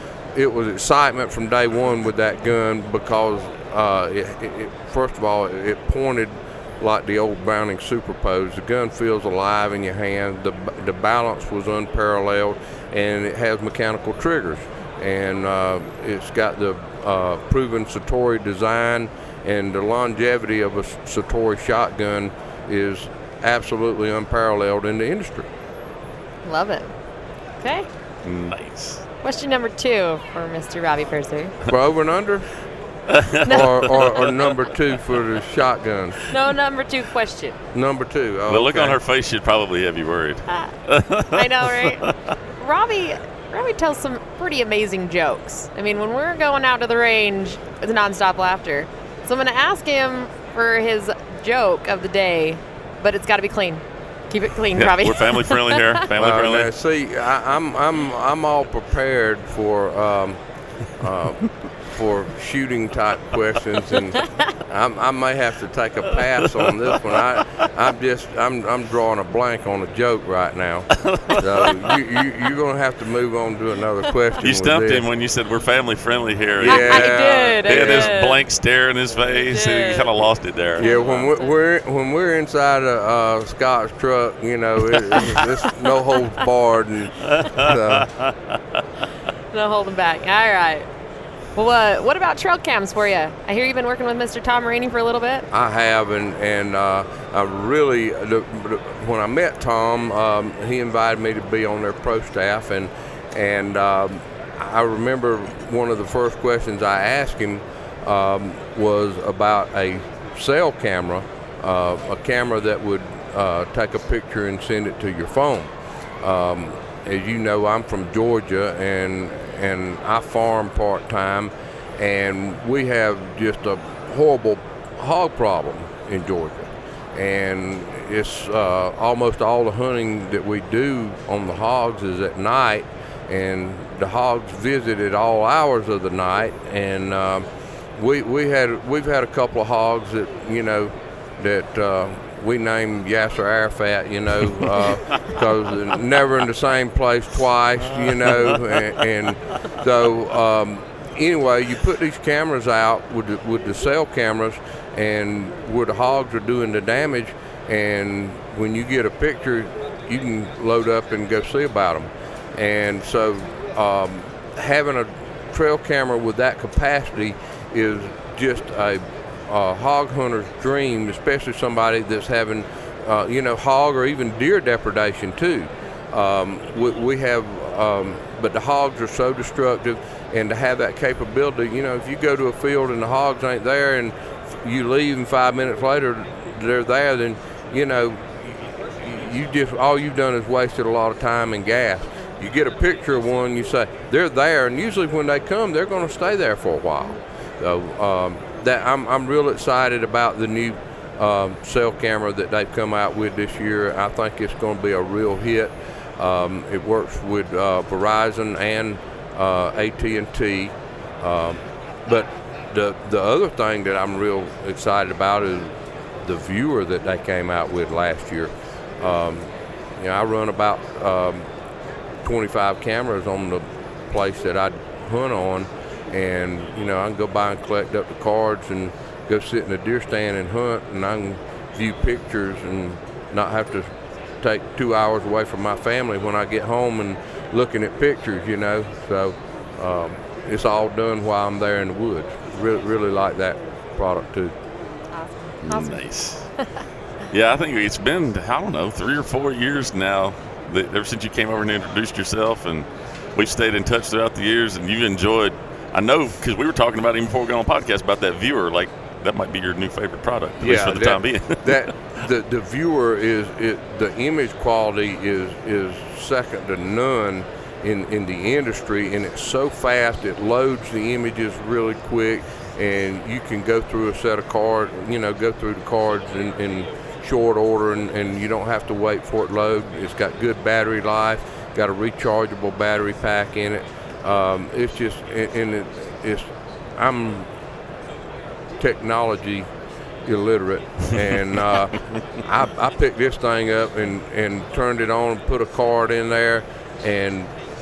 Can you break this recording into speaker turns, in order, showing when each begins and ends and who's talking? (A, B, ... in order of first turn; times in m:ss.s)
0:00.3-0:25.5 A
0:26.4-0:26.9 B
0:27.6-0:27.9 B
0:28.2-0:29.0 C
0:29.2-0:31.6 B
0:31.6-0:32.5 A
0:33.1-0:34.3 C
0:33.4-0:36.3 A
0:33.5-0:34.1 B
0:36.3-0:37.6 B
0:37.7-0:39.0 A
0:38.5-0:42.2 C
0:41.3-0:56.0 B
0:54.7-0:56.7 C
0:56.1-1:00.4 A
1:01.0-1:15.0 A
1:06.6-1:06.9 C
1:10.9-1:11.9 C
1:14.4-1:20.9 C
1:16.6-1:18.1 A
1:16.6-1:18.4 B
1:19.2-1:20.2 B
1:20.8-1:21.5 B
1:20.8-1:28.1 A
1:25.1-1:25.4 C
1:27.2-1:28.6 C
1:29.5-1:30.9 B
1:31.6-1:35.5 B
1:35.5-1:55.7 A
1:56.2-3:41.5 A
2:28.0-2:28.8 C
3:42.2-4:04.5 A
4:05.1-4:06.0 B
4:05.6-4:06.5 C
4:07.3-4:21.9 C
4:20.6-4:47.5 A
4:48.8-4:49.7 A
4:50.2-4:57.5 A